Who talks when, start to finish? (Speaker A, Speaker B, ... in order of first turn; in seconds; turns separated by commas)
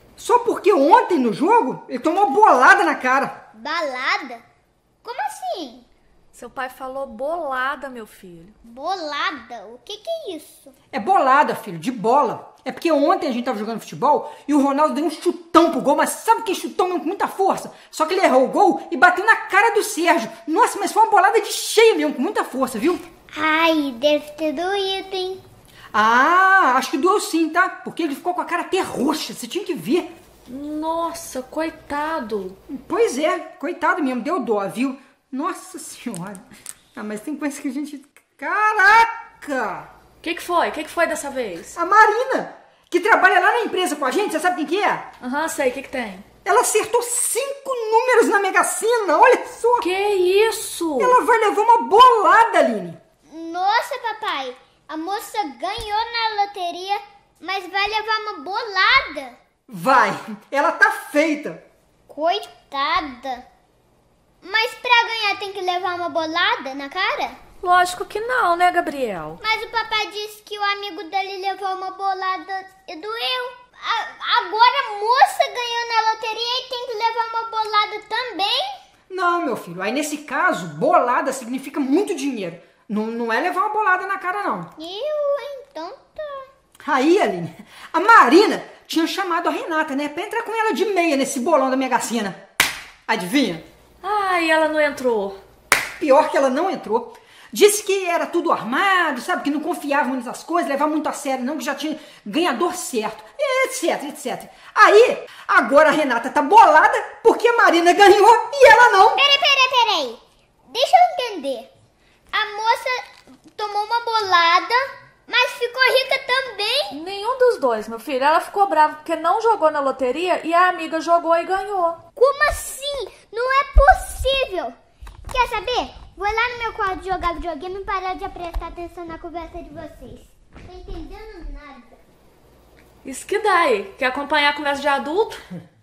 Speaker A: 0.2-3.4, Speaker B: 3.5-4.4, Speaker B: 5.0-5.8, Speaker C: 6.3-8.6, Speaker B: 8.6-10.7, Speaker A: 10.9-23.0, Speaker B: 23.3-25.4, Speaker A: 25.9-30.1, Speaker C: 30.5-32.6, Speaker A: 32.7-39.9, Speaker C: 40.2-41.7, Speaker A: 41.7-45.1, Speaker C: 45.2-46.2, Speaker A: 46.4-49.9, Speaker C: 49.8-51.2, Speaker A: 51.0-53.0, Speaker B: 53.2-59.4, Speaker A: 59.7-61.6, Speaker B: 62.1-63.5, Speaker B: 64.4-67.4, Speaker C: 67.6-69.4, Speaker B: 69.4-78.6, Speaker A: 79.1-84.7, Speaker B: 84.8-86.5, Speaker A: 86.8-92.4, Speaker A: 93.1-93.6, Speaker C: 94.0-95.4, Speaker A: 96.0-109.2, Speaker B: 109.2-111.7, Speaker B: 112.3-117.0, Speaker C: 116.9-122.0, Speaker B: 122.2-124.7, Speaker B: 125.3-132.0, Speaker C: 133.0-135.4